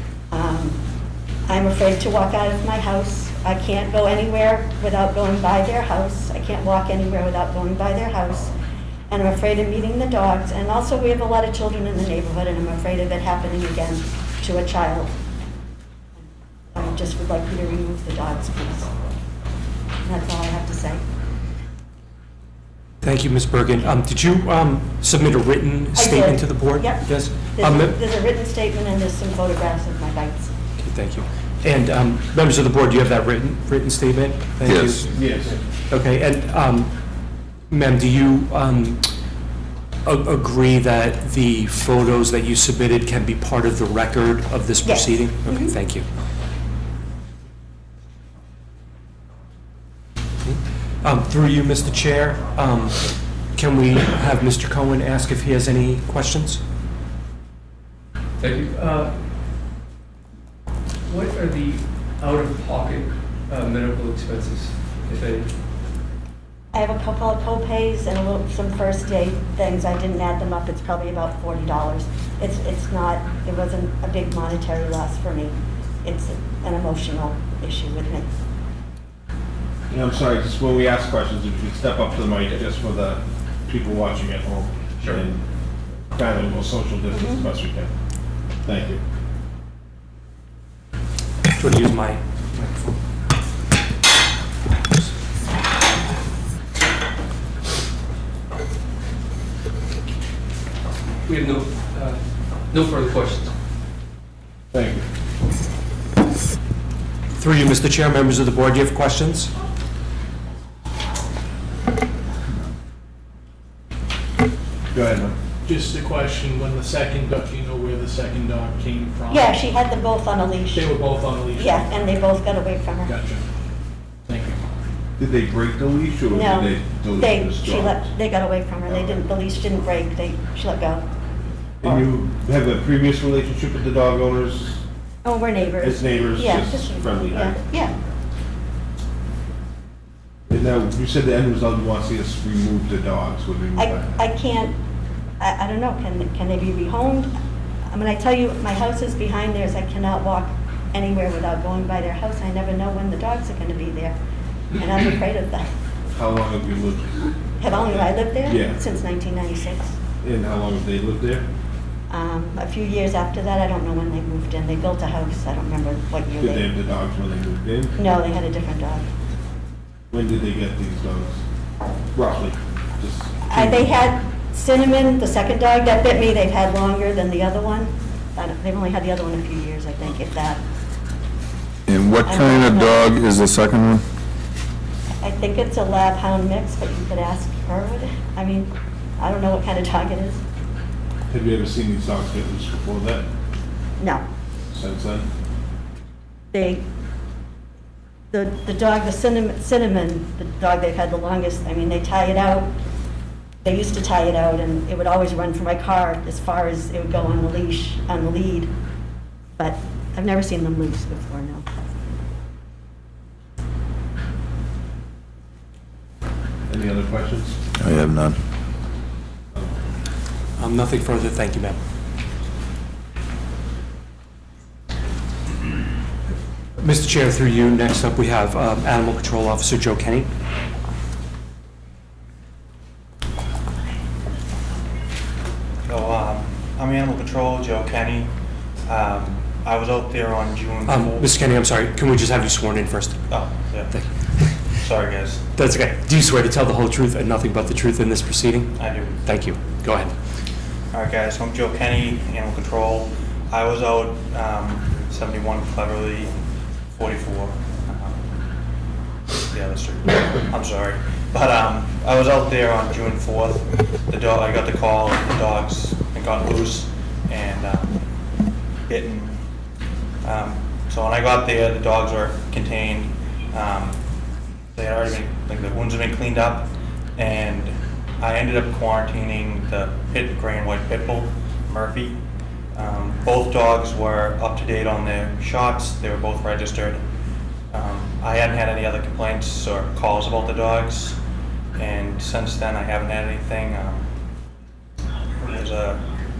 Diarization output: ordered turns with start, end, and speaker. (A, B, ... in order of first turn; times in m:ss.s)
0:00.3-0:00.8 A
0:01.5-0:08.5 A
0:09.1-0:15.1 A
0:16.7-0:18.9 A
0:20.0-0:21.0 A
0:23.0-0:28.0 B
0:26.0-0:30.5 A
0:30.8-0:35.3 B
0:34.6-0:35.0 C
0:35.1-0:35.6 D
0:35.9-0:36.9 B
0:37.7-0:39.1 B
0:40.0-0:46.0 B
0:44.8-0:45.7 A
0:50.4-0:53.0 B
0:53.5-0:56.6 B
0:58.4-0:59.1 E
1:01.1-1:05.5 E
1:06.7-1:18.3 A
1:19.9-1:25.4 D
1:26.1-1:27.9 D
1:27.1-1:27.4 A
1:28.6-1:29.0 D
1:31.5-1:32.9 B
1:41.2-1:43.5 E
1:44.7-1:45.0 D
1:47.4-1:49.5 B
1:54.9-1:55.3 D
1:55.6-1:59.6 F
1:59.3-2:00.9 A
2:00.7-2:02.1 F
2:01.5-2:03.1 A
2:03.0-2:03.4 F
2:04.2-2:04.6 F
2:05.2-2:08.1 D
2:06.3-2:11.0 A
2:08.9-2:09.2 D
2:11.8-2:14.8 D
2:15.2-2:17.9 A
2:15.8-2:18.0 D
2:20.5-2:24.1 D
2:23.8-2:24.8 A
2:25.4-2:27.3 A
2:27.9-2:34.2 A
2:34.8-2:35.7 A
2:36.1-2:38.8 D
2:37.6-2:40.0 A
2:40.2-2:41.5 D
2:42.1-2:46.6 A
2:46.4-2:48.0 D
2:48.0-2:49.0 A
2:50.1-2:51.4 D
2:52.1-2:53.8 D
2:53.5-3:00.6 A
3:01.9-3:04.0 C
3:02.2-3:03.1 A
3:05.2-3:10.4 A
3:11.3-3:13.2 D
3:14.0-3:14.2 A
3:14.7-3:15.3 D
3:16.5-3:16.8 A
3:18.3-3:22.7 A
3:23.6-3:28.7 A
3:29.6-3:31.6 A
3:36.7-3:37.6 D
3:37.8-3:38.4 C
3:40.6-3:41.8 B
3:46.8-3:50.3 B
3:55.9-3:58.3 G
3:58.9-4:01.3 G
4:00.8-4:03.2 B
4:03.3-4:05.4 G
4:03.9-4:04.9 B
4:05.6-4:10.1 B
4:08.8-4:09.2 G
4:10.9-4:18.2 G
4:19.5-4:28.0 G
4:28.9-4:29.4 G
4:30.2-4:34.0 G
4:34.8-4:42.2 G
4:42.8-4:47.0 G
4:47.7-4:51.2 G
4:51.8-4:54.1 G
4:55.4-4:56.0 G